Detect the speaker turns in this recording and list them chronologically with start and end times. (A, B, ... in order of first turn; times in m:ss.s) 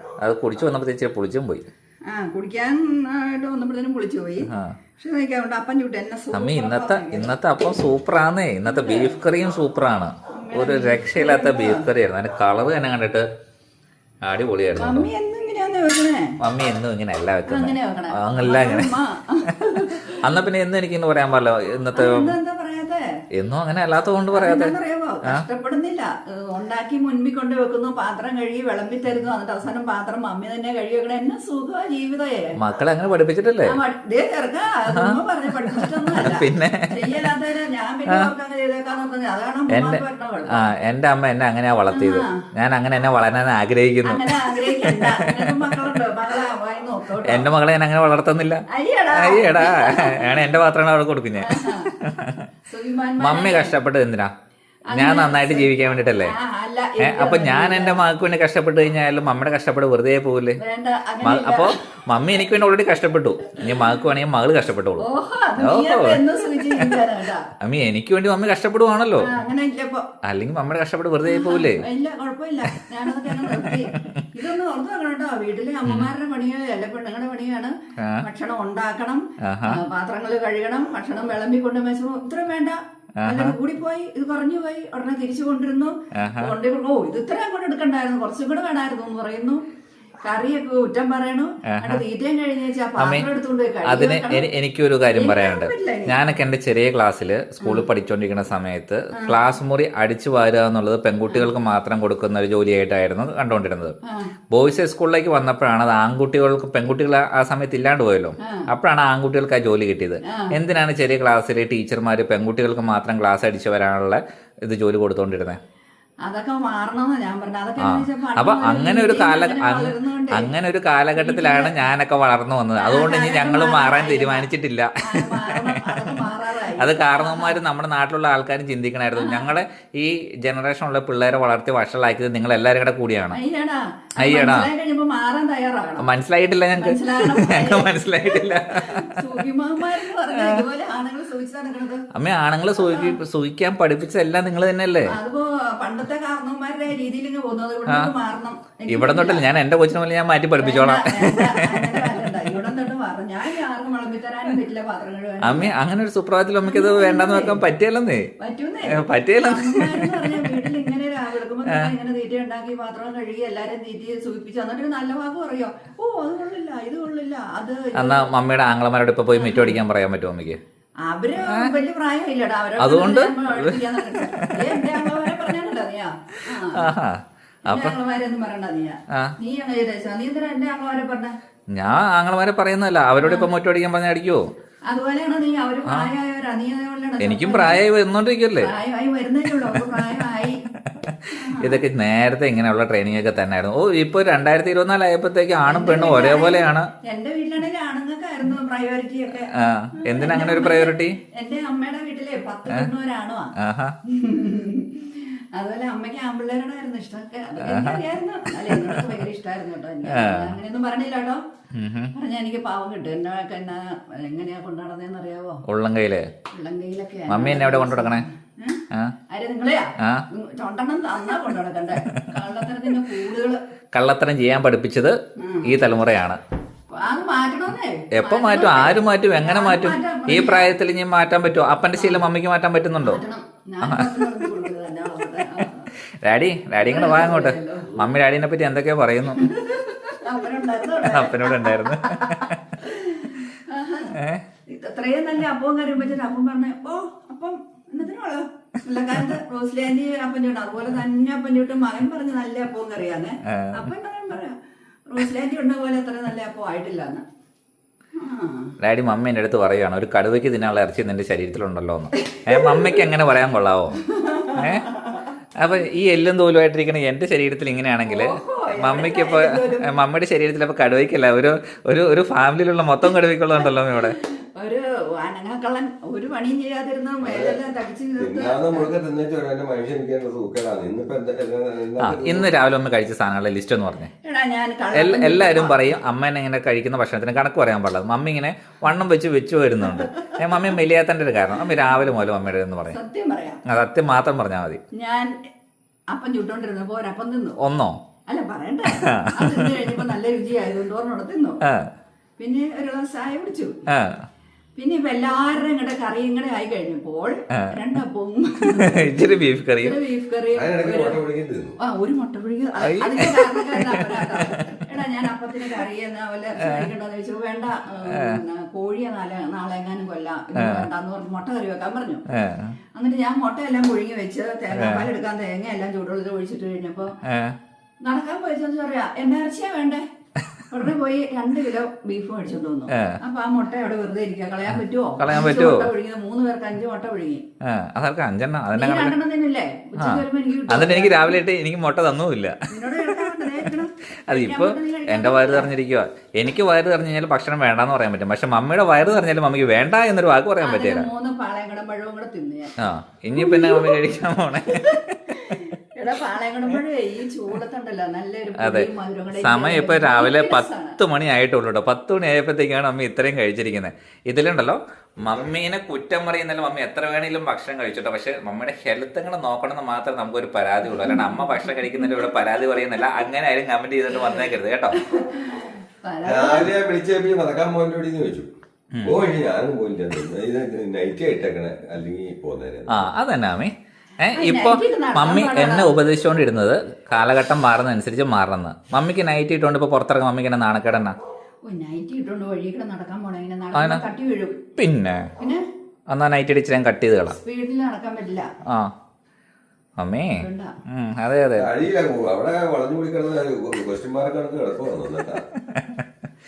0:00.2-0:01.7 A
0:02.1-0:07.4 B
0:04.5-0:04.8 A
0:06.3-0:13.3 A
0:08.7-0:09.2 B
0:10.4-0:11.9 B
0:14.2-0:15.1 A
0:14.8-0:16.4 B
0:16.4-0:18.9 A
0:17.5-0:20.4 B
0:19.6-0:22.3 A
0:21.9-0:23.0 B
0:23.4-0:25.4 A
0:24.3-0:32.6 B
0:32.6-0:33.8 A
0:33.7-0:40.7 B
0:34.9-0:37.3 A
0:39.7-0:46.0 A
0:41.9-0:42.4 B
0:44.0-0:47.5 B
0:47.2-0:48.6 A
0:48.7-0:50.5 B
0:49.1-0:52.4 A
0:51.4-0:51.9 B
0:52.7-0:53.8 B
0:53.2-0:54.3 A
0:54.9-0:58.0 B
0:54.9-0:56.3 A
0:57.0-1:00.6 A
1:00.6-1:02.5 B
1:01.2-1:05.0 A
1:03.5-1:03.9 B
1:05.0-1:07.4 B
1:05.6-1:07.0 A
1:07.6-1:09.3 A
1:09.2-1:10.1 B
1:10.2-1:11.8 A
1:11.2-1:29.6 B
1:12.7-1:14.3 A
1:15.8-1:16.1 A
1:18.0-1:18.2 A
1:19.4-1:19.8 A
1:23.2-1:23.6 A
1:26.1-1:26.5 A
1:30.2-1:34.5 B
1:31.7-1:32.0 A
1:33.0-1:33.3 A
1:33.8-1:43.9 A
1:35.2-1:36.2 B
1:37.6-1:37.9 B
1:44.1-1:44.3 B
1:44.5-1:55.6 A
1:48.4-1:48.7 B
1:56.2-2:00.5 B
1:57.8-2:13.4 A
2:01.2-2:01.9 B
2:02.8-2:04.5 B
2:05.0-2:07.6 B
2:09.2-2:09.5 B
2:13.3-2:16.1 B
2:14.2-2:14.7 A
2:16.0-2:19.4 A
2:16.8-2:22.0 B
2:20.0-2:20.6 A
2:22.1-2:25.2 A
2:22.8-2:23.2 B
2:25.0-2:29.5 B
2:28.9-2:32.3 A
2:30.6-2:35.7 B
2:35.4-2:38.3 A
2:36.6-2:37.6 B
2:38.4-2:48.3 B
2:38.9-2:40.7 A
2:48.0-2:50.6 A
2:49.3-2:49.8 B
2:51.1-2:57.0 B
2:51.4-2:51.7 A
2:52.8-2:55.5 A
2:56.6-2:58.0 A
2:57.7-3:01.3 B
3:01.7-3:04.5 A
3:03.2-3:03.5 B
3:04.9-3:07.9 B
3:07.2-3:08.7 A
3:08.6-3:10.6 B
3:09.5-3:16.9 A
3:11.3-3:11.8 B
3:15.7-3:23.5 B
3:19.5-3:21.2 A
3:23.6-3:24.0 A
3:24.1-3:31.4 B
3:27.6-3:29.2 A
3:30.1-3:30.6 A
3:31.7-3:32.1 A
3:32.2-3:35.6 B
3:35.7-3:36.3 A
3:36.5-3:43.6 B
3:37.3-3:38.2 A
3:40.0-3:40.2 A
3:43.9-3:46.4 A
3:45.4-3:45.9 B
3:46.9-3:50.8 B
3:48.1-3:53.2 A
3:51.9-3:52.3 B
3:53.0-3:55.9 B
3:53.8-3:54.3 A
3:56.2-3:59.4 A
3:56.8-3:58.0 B
3:59.3-4:04.2 B
4:01.0-4:02.8 A
4:04.1-4:04.4 A
4:04.7-4:17.2 B
4:13.5-4:13.9 A
4:18.2-4:18.7 B
4:18.8-4:24.9 A
4:22.2-4:23.1 B
4:24.0-4:25.3 B
4:25.6-4:34.2 A
4:28.0-4:30.0 B
4:33.6-4:38.9 B
4:37.2-4:37.6 C
4:38.2-4:42.5 C
4:42.0-4:44.1 A
4:44.2-4:45.8 B
4:44.9-4:53.0 A
4:49.8-4:50.8 B
4:51.7-4:52.0 B
4:52.9-4:53.6 B
4:53.7-4:54.8 A
4:55.0-4:55.3 B
4:56.1-4:57.6 B
4:57.6-4:58.0 A
4:58.3-5:01.6 B
4:58.9-4:59.7 A
5:01.6-5:01.9 A
5:02.4-5:03.8 B
5:03.9-5:04.2 A
5:04.8-5:11.2 B
5:08.7-5:10.0 A
5:10.5-5:11.8 C
5:11.8-5:22.2 B
5:12.8-5:14.8 A
5:16.6-5:16.9 A
5:18.1-5:18.4 A
5:20.6-5:20.9 A
5:22.3-5:22.8 A
5:23.0-5:27.1 B
5:24.7-5:25.1 A
5:27.2-5:27.6 A
5:28.0-5:30.0 B
5:30.7-5:37.4 B
5:32.9-5:33.2 A
5:35.2-5:35.9 A
5:37.6-5:39.2 A
5:38.7-5:41.4 B
5:40.0-5:51.1 A
5:42.7-5:45.7 B
5:50.6-5:52.7 B
5:52.8-5:55.7 A
5:53.4-5:54.1 B
5:54.7-6:01.0 B
5:58.6-6:15.0 A
6:10.9-6:13.2 B
6:14.1-6:16.8 B
6:16.2-6:18.5 C
6:18.9-6:19.2 A
6:19.0-6:23.1 C
6:22.9-6:31.2 A
6:24.3-6:26.0 B
6:31.7-6:34.7 B
6:33.7-6:34.0 A
6:34.8-6:35.3 A
6:35.4-6:35.6 B
6:36.1-6:37.4 A
6:37.3-6:38.5 B
6:38.6-6:38.9 A
6:40.0-6:41.7 A
6:40.4-6:40.7 B
6:41.6-6:45.5 C
6:45.6-6:46.1 A